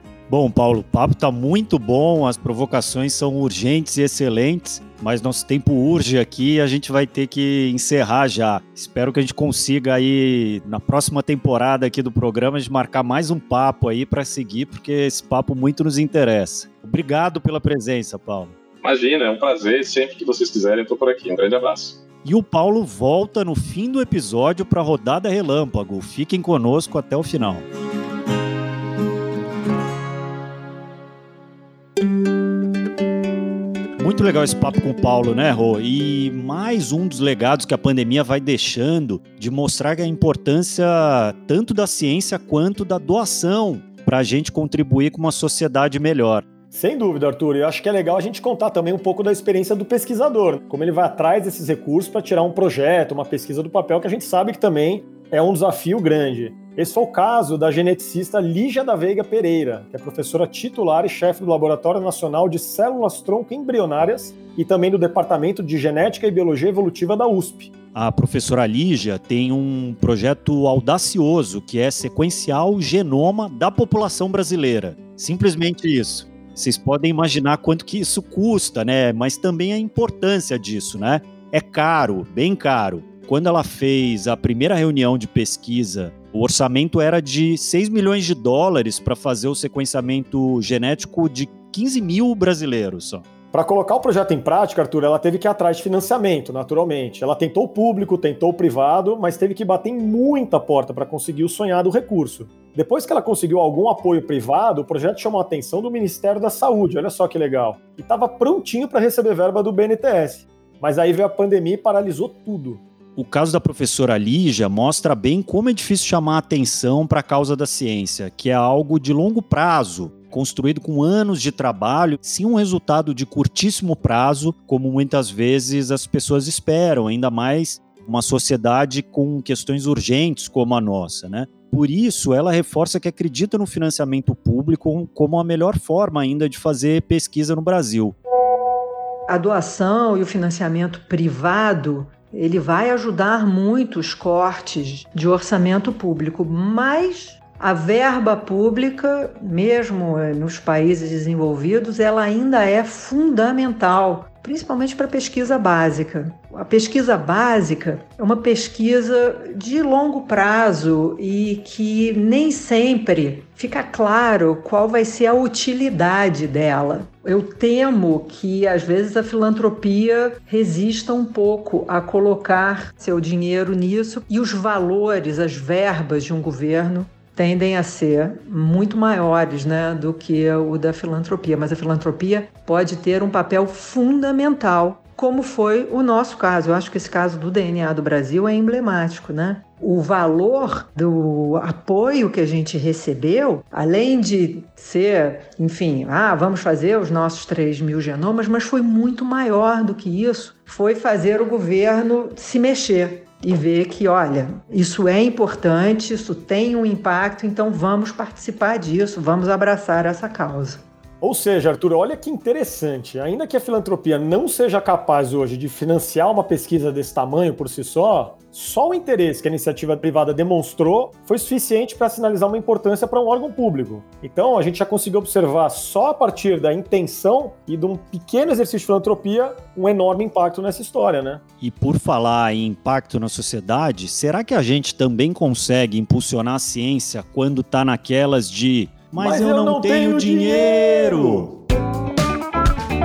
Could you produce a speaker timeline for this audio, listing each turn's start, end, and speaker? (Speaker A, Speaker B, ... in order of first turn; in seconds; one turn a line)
Speaker A: 0.3-18.5
Speaker B: 18.8-22.0
Speaker A: 22.2-27.7
Speaker A: 34.0-46.5
Speaker C: 46.7-67.7
Speaker A: 67.9-93.3
Speaker C: 93.5-112.8
Speaker A: 113.2-138.2
Speaker D: 139.3-210.8
Speaker C: 211.2-231.4
Speaker A: 231.6-241.6
Speaker C: 239.2-241.5